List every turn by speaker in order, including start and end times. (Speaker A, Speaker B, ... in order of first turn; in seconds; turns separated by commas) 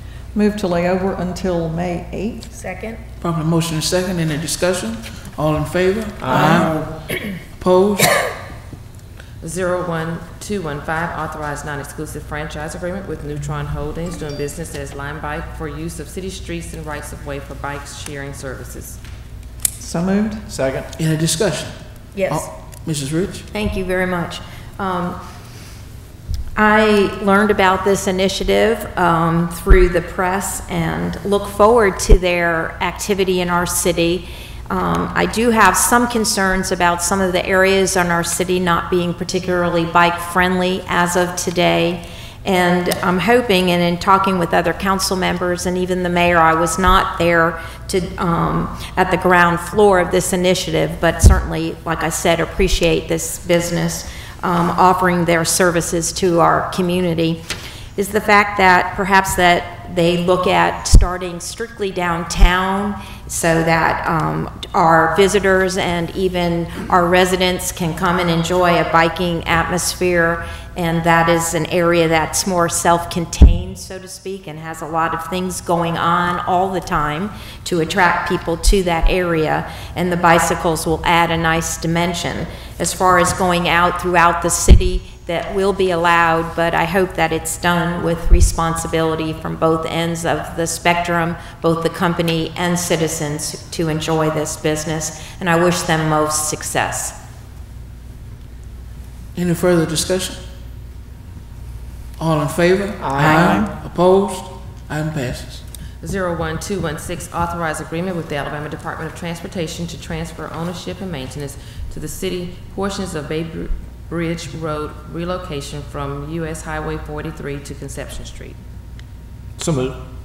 Speaker A: 0.3-2.5, Speaker B: 3.2-6.8, Speaker C: 6.2-7.0, Speaker B: 7.5-8.2, Speaker D: 9.4-19.0, Speaker A: 19.8-20.5, Speaker C: 20.5-20.9, Speaker B: 20.9-21.8, Speaker B: 22.3-23.5, Speaker E: 23.5-25.2, Speaker E: 26.6-57.4, Speaker E: 58.0-97.1, Speaker B: 99.3-100.4, Speaker B: 102.2-105.6, Speaker C: 103.0-103.7, Speaker A: 103.2-103.6, Speaker D: 106.0-118.6, Speaker C: 119.6-120.0